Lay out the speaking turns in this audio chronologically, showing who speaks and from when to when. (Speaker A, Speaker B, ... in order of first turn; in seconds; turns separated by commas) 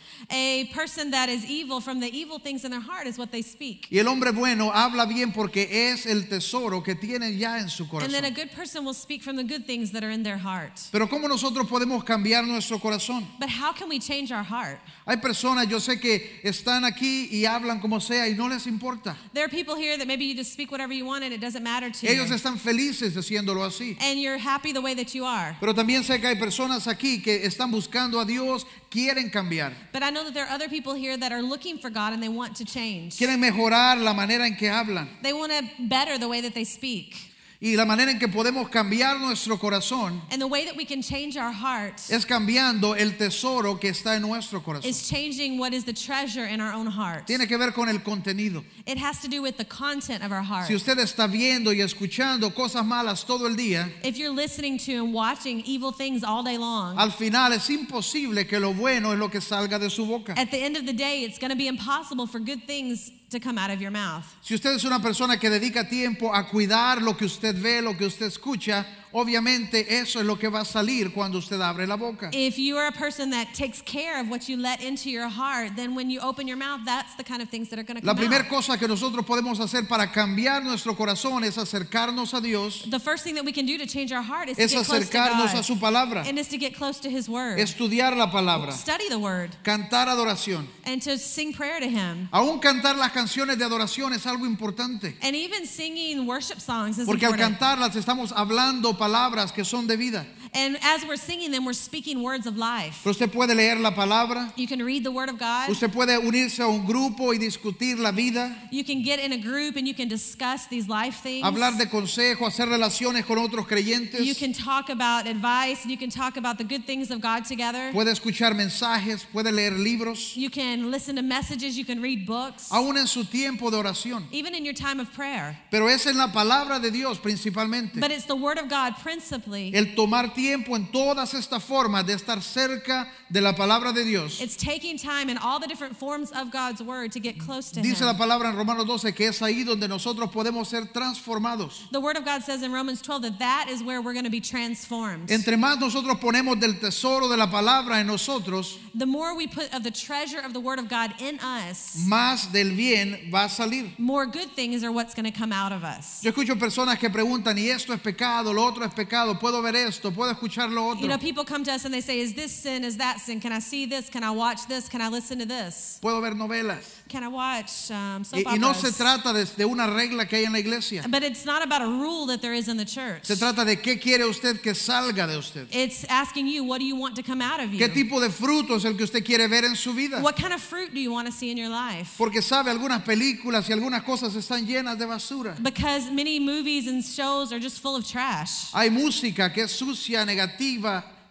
Speaker A: 0.3-3.9, Speaker B: 3.9-8.3, Speaker A: 8.0-10.9, Speaker B: 10.9-13.3, Speaker A: 13.4-14.9, Speaker B: 15.1-19.2, Speaker A: 19.3-22.4, Speaker B: 22.0-24.0, Speaker A: 24.0-25.6, Speaker B: 25.6-29.8, Speaker A: 29.9-33.3, Speaker B: 33.2-35.1, Speaker A: 35.2-37.3, Speaker B: 37.6-40.2, Speaker A: 40.3-42.2, Speaker B: 42.1-45.0, Speaker A: 44.8-47.4, Speaker B: 47.3-48.7, Speaker A: 48.8-50.8, Speaker B: 50.6-53.9, Speaker A: 54.0-57.0, Speaker B: 56.9-60.4, Speaker A: 60.3-64.3, Speaker B: 64.4-72.3, Speaker A: 72.3-78.5, Speaker B: 78.0-82.8, Speaker A: 82.8-85.7, Speaker B: 84.6-86.3, Speaker A: 86.2-87.7, Speaker B: 87.5-88.8, Speaker A: 88.5-89.6, Speaker B: 89.6-90.7, Speaker A: 90.8-92.3, Speaker B: 92.3-95.2, Speaker A: 95.2-97.5, Speaker B: 97.1-100.3, Speaker A: 100.5-103.1, Speaker B: 103.0-104.5, Speaker A: 104.5-105.8, Speaker B: 105.7-108.6, Speaker A: 108.7-111.8, Speaker B: 111.4-114.4, Speaker A: 114.2-118.0, Speaker B: 117.9-120.3, Speaker A: 120.3-122.8, Speaker B: 122.7-124.3, Speaker A: 124.3-125.6, Speaker B: 125.7-128.1, Speaker A: 127.9-129.8, Speaker B: 129.7-134.4, Speaker A: 134.4-138.2, Speaker B: 137.7-141.8, Speaker A: 141.9-145.4, Speaker B: 145.3-148.8, Speaker A: 148.9-152.1, Speaker B: 151.9-153.9, Speaker A: 154.0-156.2, Speaker B: 156.2-161.2, Speaker A: 160.9-166.0, Speaker B: 166.0-166.9, Speaker A: 167.1-169.1, Speaker B: 168.3-171.1, Speaker A: 171.0-173.4, Speaker B: 173.2-175.7, Speaker A: 175.7-178.0, Speaker B: 177.8-180.3, Speaker A: 180.1-182.2, Speaker B: 182.2-185.6, Speaker A: 185.6-188.7, Speaker B: 188.7-191.0